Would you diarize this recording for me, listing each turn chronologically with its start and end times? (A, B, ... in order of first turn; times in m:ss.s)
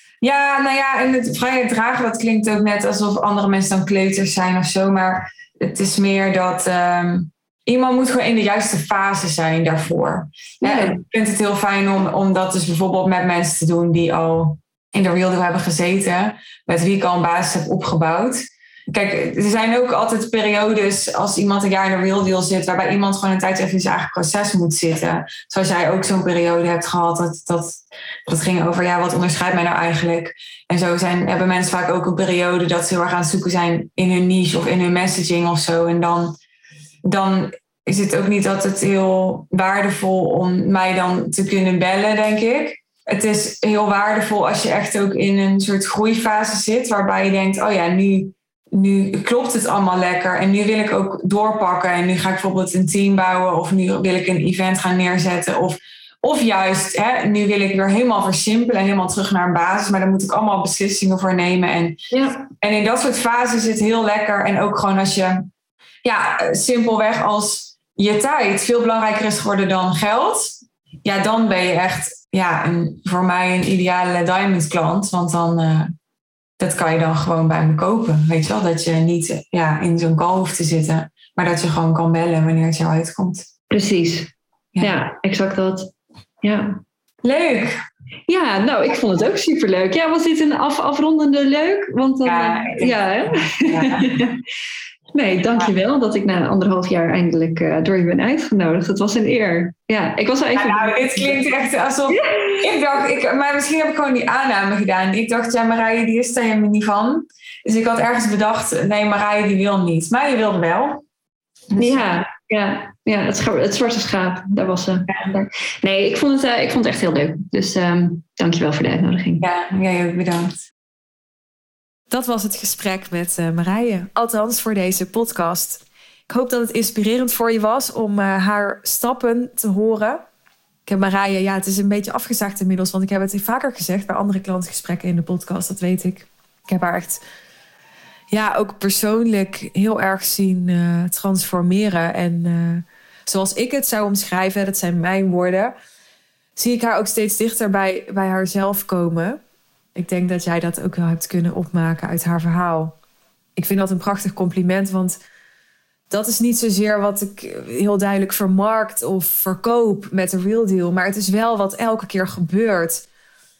0:00.2-0:36.3 A
0:10.6-0:11.0 B
0:37.0-1:05.5 A
1:02.1-1:02.4 B
1:06.0-1:15.9 A
1:16.6-1:23.4 A
1:23.7-1:25.9 B
1:26.4-1:26.8 B
1:27.2-1:27.7 A
1:28.3-1:34.4 B
1:32.2-1:34.1 A
1:35.1-1:41.4 B
1:40.5-1:51.0 A
1:42.1-1:42.6 B
1:51.7-1:52.0 A
1:51.8-1:59.4 B
1:59.4-2:00.5 A
2:02.1-2:10.2 C
2:10.9-2:17.2 C
2:18.3-2:25.7 C
2:26.6-2:29.4 C
2:29.9-2:32.9 C
2:33.6-2:35.2 C
2:36.1-2:43.0 C